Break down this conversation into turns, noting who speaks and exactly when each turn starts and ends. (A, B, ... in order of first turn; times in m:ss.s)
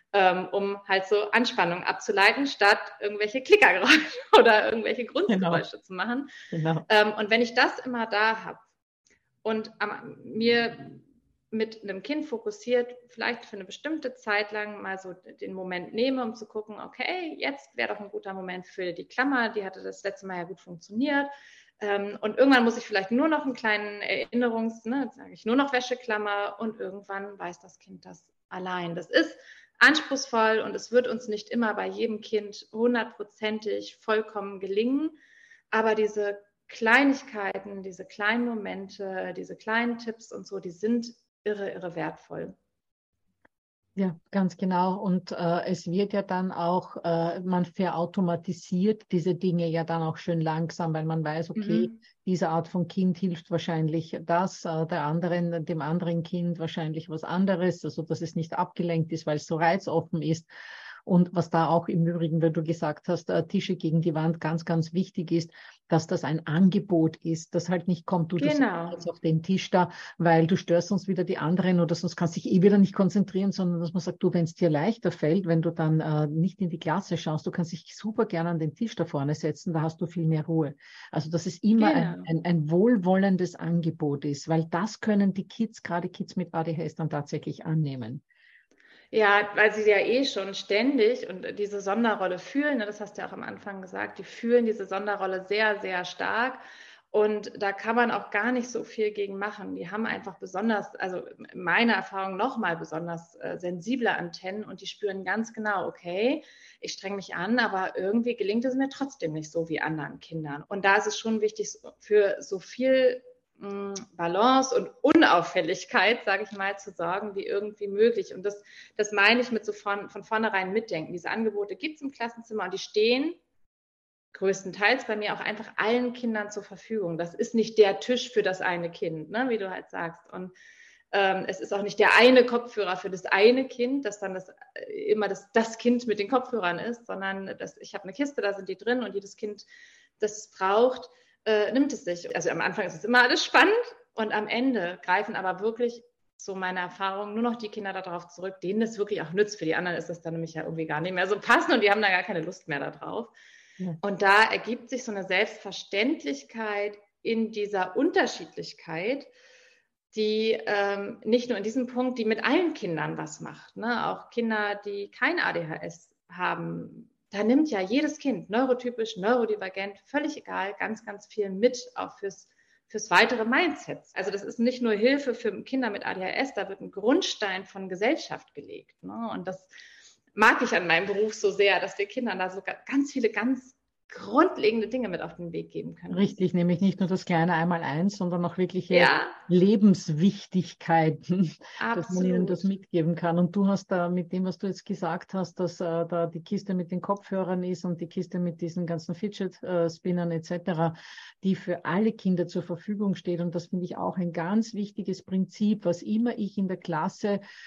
0:00.1-0:06.3 A
0:05.3-0:05.6 B
0:06.5-0:06.9 B
0:06.9-0:08.6 A
0:09.4-0:35.2 A
0:35.7-0:42.6 A
0:44.0-1:00.5 B
0:51.6-0:52.0 A
1:01.0-1:28.2 B
1:08.4-1:09.0 A
1:21.8-1:22.3 A
1:29.1-2:03.4 A
2:04.3-2:10.5 A
2:11.1-2:19.7 A
2:20.2-2:33.3 A
2:34.0-2:39.3 A
2:40.1-2:59.7 A
3:00.4-3:06.4 A
3:06.1-3:27.4 B
3:08.9-3:09.4 A
3:11.8-3:12.7 A